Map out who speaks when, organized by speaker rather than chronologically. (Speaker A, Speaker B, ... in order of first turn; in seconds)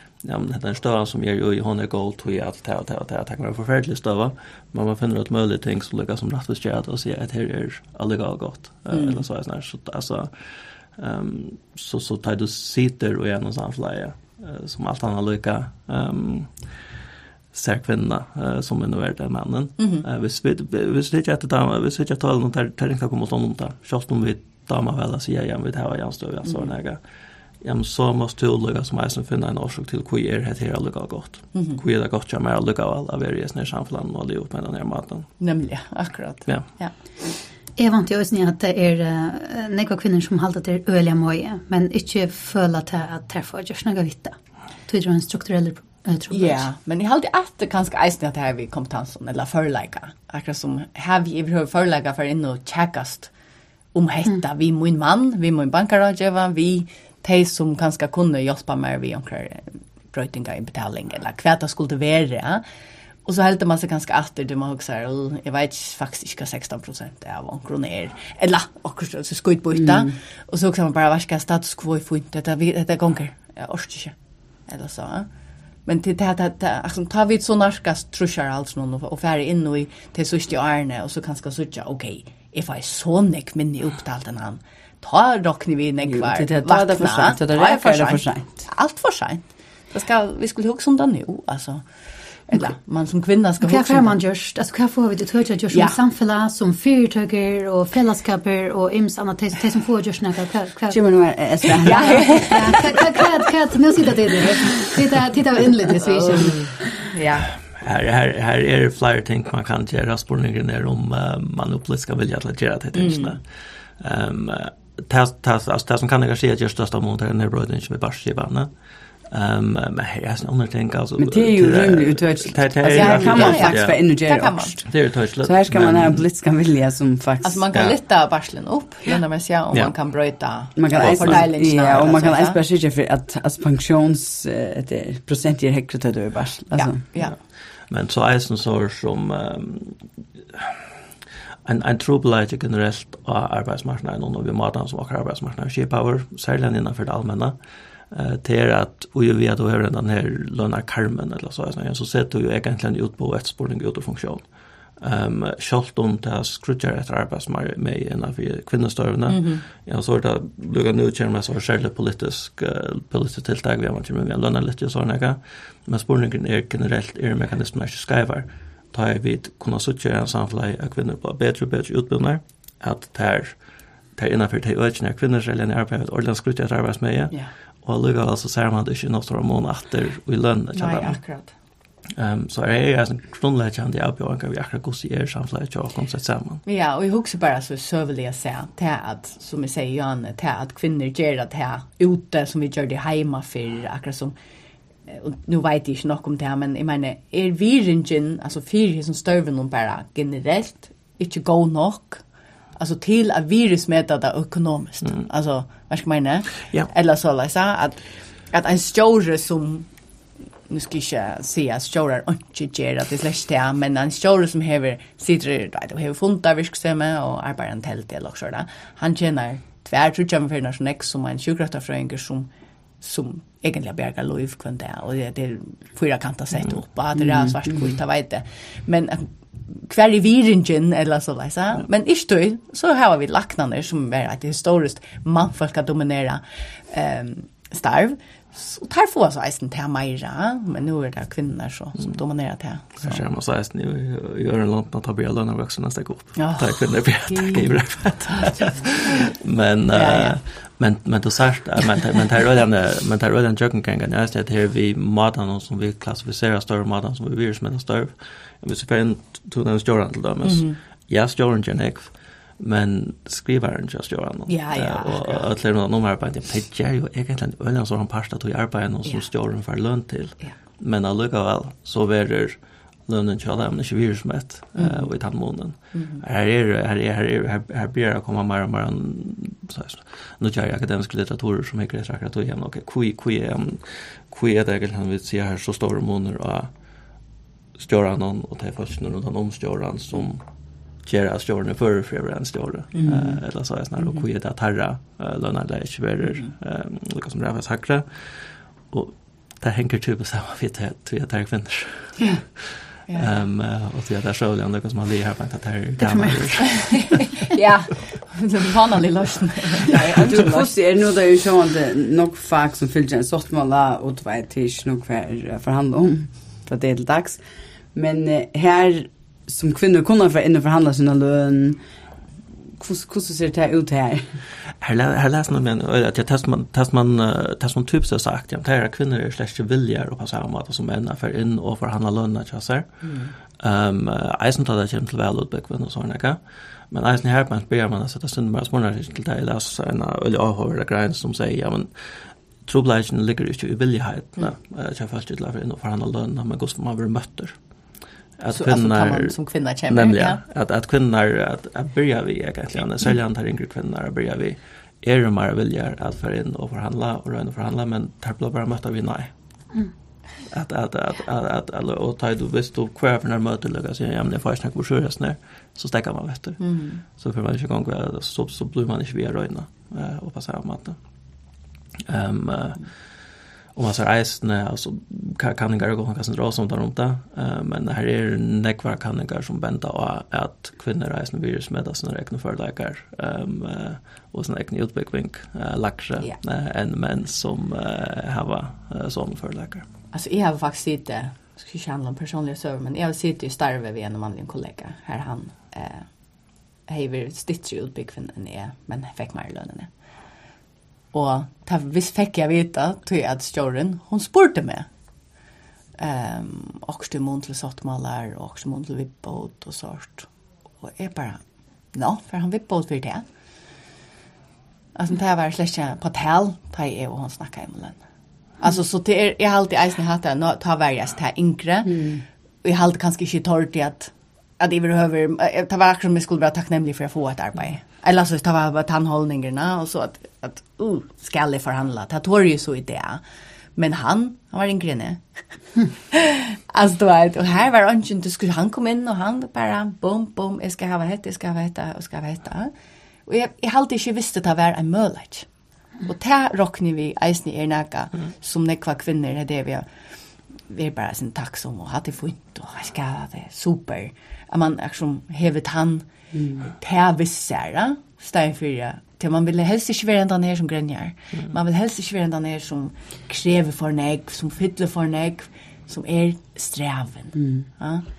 Speaker A: 0.2-16.9, 17.5-27.0, 27.6-35.3, 107.7-118.7, 119.2-124.1, 124.8-126.2, 131.0-131.5, 137.1-140.8, 141.6-147.6, 148.1-154.4, 155.0-173.6, 174.2-181.2, 182.2-186.6, 242.9-286.7, 287.8-290.4, 291.0-307.3, 324.8-336.4, 336.9-347.6, 348.4-359.3, 360.5-371.0, 372.1-373.0, 373.7-389.8
Speaker B: 8.9-9.2, 19.8-20.0, 26.4-26.7, 31.5-31.8, 35.4-36.9, 46.3-53.3, 53.9-62.6, 63.2-74.1, 74.7-75.3, 75.8-91.9, 92.5-94.1, 95.7-96.0, 101.8-102.7, 106.0-107.5, 112.9-113.4, 122.9-124.8, 127.4-132.6, 136.7-137.3, 159.3-159.6, 180.7-181.5, 186.6-194.3, 195.1-209.9, 210.7-222.5, 223.0-243.2, 246.3-248.9, 249.9-250.3, 260.4-260.8, 264.5-265.5, 274.7-275.1, 275.9-276.2, 292.9-293.4, 294.0-294.2, 302.2-302.4, 303.1-303.4, 307.4-310.7, 333.0-333.3, 348.5-350.4, 366.6-367.0, 390.1-396.1, 396.9-399.9, 401.1-404.9, 406.0-410.3, 410.8-411.4, 411.9-413.2, 414.9-418.0, 418.6-433.2, 433.7-442.7, 443.3-445.5, 446.0-449.9, 450.7-456.1, 456.6-468.0
Speaker C: 37.8-46.7, 93.6-101.0, 101.9-106.6, 306.0-307.0
Speaker D: 69.7-70.2, 86.0-88.6, 100.9-102.8, 121.2-127.6, 130.8-137.0, 227.2-227.9, 310.1-317.4, 317.9-321.8, 322.8-324.4, 421.8-422.2, 456.3-456.7, 467.3-467.7